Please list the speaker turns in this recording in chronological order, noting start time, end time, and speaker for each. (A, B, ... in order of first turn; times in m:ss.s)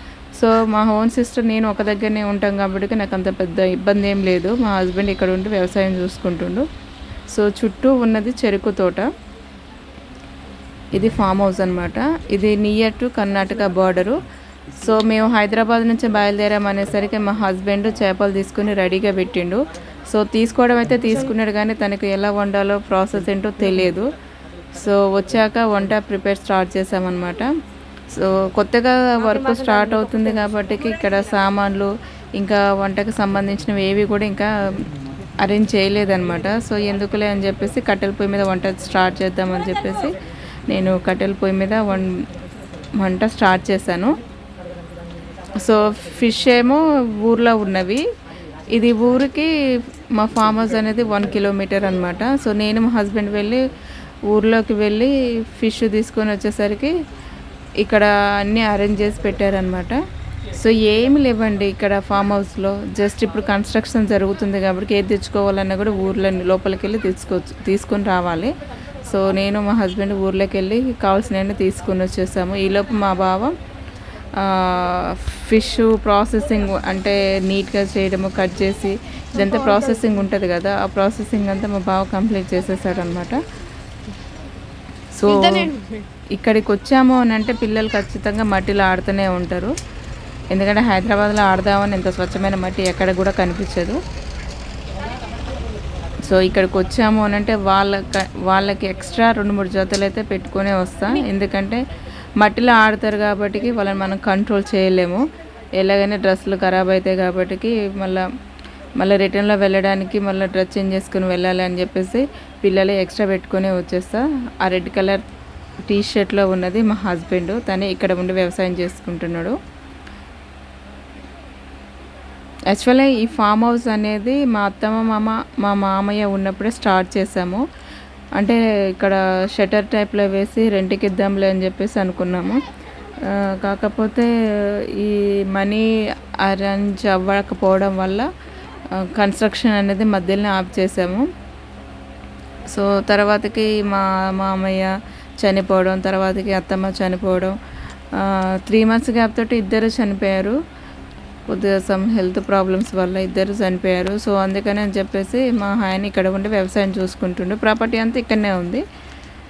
0:00.4-0:06.6 A
0:07.3-0:09.1 A
0:10.9-0:14.2 A
0:14.8-0:24.1 A
0:24.7-0:27.5 A
0:28.1-0:34.5 A
0:35.4-0:40.1 A
0:40.7-0:42.1 A
0:43.0-0:44.2 A
0:45.5-0:48.0 A
0:48.7-0:53.6 A
0:54.3-0:56.9 A
0:57.8-1:00.0 A
1:00.5-1:13.5 A
1:14.4-1:23.4 A
1:25.2-1:25.7 A
1:26.4-1:29.7 A
1:30.5-1:34.0 A
1:36.2-1:41.8 A
1:42.4-1:45.2 A
1:45.8-1:48.2 A
1:49.0-1:55.2 A
1:55.9-1:59.6 A
2:02.7-2:07.6 A
2:08.4-2:12.6 A
2:13.3-2:15.8 A
2:16.4-2:18.3 A
2:19.0-2:21.2 A
2:22.7-2:27.6 A
2:28.2-2:30.6 A
2:31.5-2:38.8 A